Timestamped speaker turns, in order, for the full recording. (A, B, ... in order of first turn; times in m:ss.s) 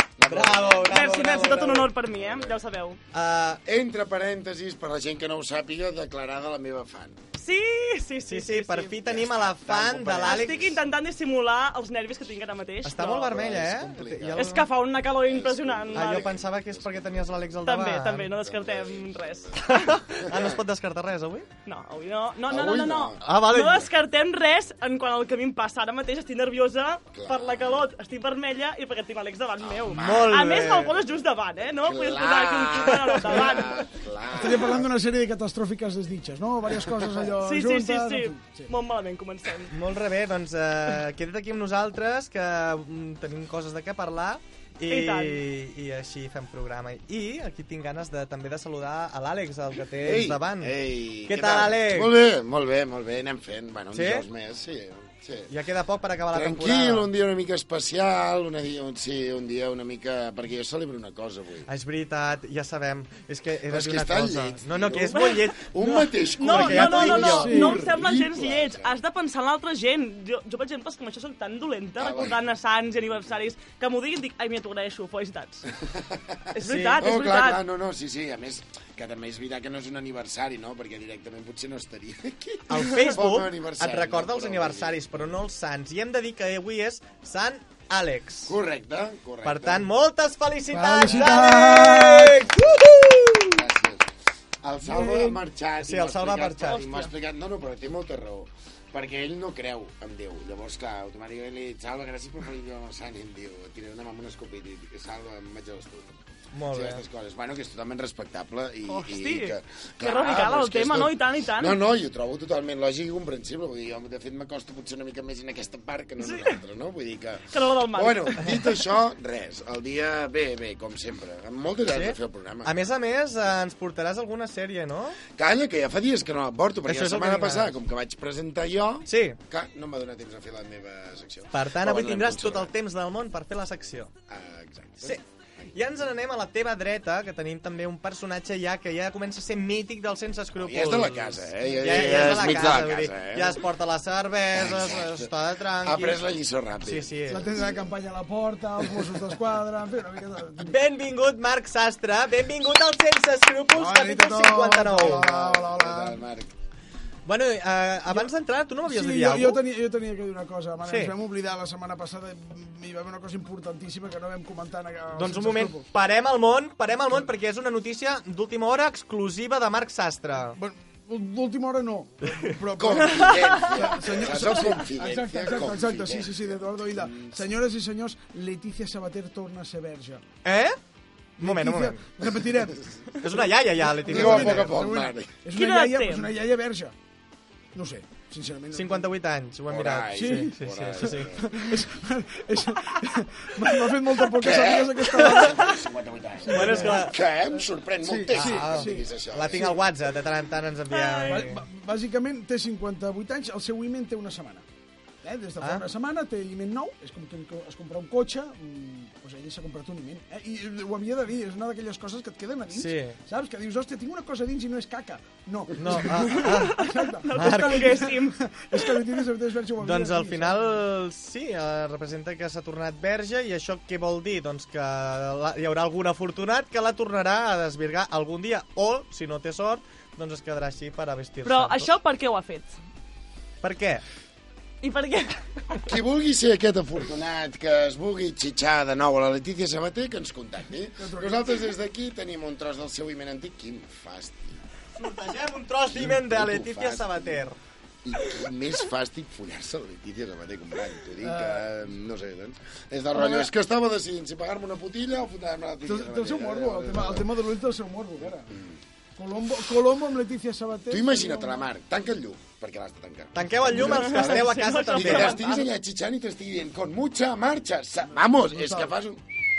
0:00.2-0:02.6 A
0:00.3-0:01.9 B
0:00.9-0:03.0 C
0:03.1-0:03.6 B
0:03.6-0:07.2 A
0:07.4-0:09.0 C
0:08.3-0:10.7 B
0:09.0-0:10.8 A
0:10.1-0:13.4 C
0:12.8-0:14.7 B
0:13.1-0:17.6 A
0:14.4-0:16.3 C
0:15.9-0:18.4 B
0:17.6-0:19.8 C
0:18.4-0:20.6 A
0:19.6-0:21.5 B
0:21.7-0:33.9 C
0:22.5-0:23.2 A
0:23.2-0:23.9 B
0:27.1-0:27.9 A
0:29.6-0:30.7 A
0:29.9-0:30.9 B
0:31.8-0:34.9 A
0:34.3-0:38.7 D
0:37.4-0:39.7 C
0:39.7-0:50.7 B
0:44.9-0:45.4 C
0:50.0-0:55.5 A
0:51.3-0:52.2 B
0:53.9-0:54.2 B
0:55.5-0:57.1 B
0:56.3-1:01.7 A
1:01.7-1:05.6 B
1:03.7-1:09.0 A
1:05.1-1:15.7 C
1:06.4-1:07.6 B
1:07.3-1:07.8 D
1:12.0-1:12.4 A
1:15.8-1:16.4 A
1:16.6-1:17.6 C
1:16.6-1:17.0 B
1:17.0-1:25.3 A
1:22.7-1:28.6 B
1:28.5-1:29.9 A
1:29.4-1:33.6 B
1:30.7-1:32.4 D
1:31.1-1:31.4 A
1:33.5-1:34.1 A
1:34.6-1:46.2 A
1:34.9-1:37.1 B
1:46.5-1:47.0 B
1:46.7-2:02.7 A
1:48.9-1:51.8 C
1:56.2-1:56.6 C
1:57.5-1:58.8 C
2:01.9-2:05.2 B
2:05.4-2:12.7 A
2:06.9-2:07.8 B
2:09.1-2:09.4 B
2:11.5-2:14.1 B
2:14.3-2:15.7 A
2:15.0-2:26.2 B
2:20.6-2:23.7 A
2:24.5-2:27.6 A
2:26.8-2:27.4 B
2:27.3-2:30.8 D
2:30.7-2:35.3 B
2:33.7-2:36.2 D
2:34.9-2:36.5 A
2:37.3-2:39.6 B
2:38.8-2:45.8 D
2:40.8-2:41.2 B
2:45.2-2:50.6 B
2:50.6-3:00.2 D
2:52.8-2:57.4 A
3:00.4-3:00.8 B
3:01.4-3:02.0 B
3:01.4-3:02.9 D
3:03.2-3:04.7 B
3:03.4-3:07.0 D
3:04.1-3:05.3 A
3:05.5-3:06.3 C
3:07.7-3:09.1 D
3:08.7-3:11.3 B
3:09.7-3:11.6 A
3:10.1-3:15.8 D
3:14.4-3:19.8 A
3:15.2-3:15.5 B
3:16.4-3:17.1 D
3:16.5-3:17.2 B
3:18.0-3:19.8 D
3:18.3-3:21.6 B
3:20.9-3:21.5 C
3:21.3-3:24.6 D
3:25.2-3:40.8 D
3:25.6-3:25.8 B
3:32.7-3:33.2 B
3:35.8-3:38.1 B
3:36.2-3:39.0 C
3:39.8-3:51.9 B
3:51.4-3:52.8 C
3:53.6-3:54.0 B
3:54.8-3:55.5 C
3:55.8-4:04.6 A
4:01.0-4:01.6 D
4:05.0-4:07.6 B
4:05.9-4:07.4 A
4:08.0-4:17.3 A
4:11.2-4:11.7 D
4:13.1-4:13.5 D
4:15.9-4:18.5 D
4:18.5-4:18.8 A
4:19.2-4:21.7 D
4:20.9-4:29.4 A
4:23.4-4:25.4 B
4:23.7-4:25.7 C
4:28.1-4:28.9 D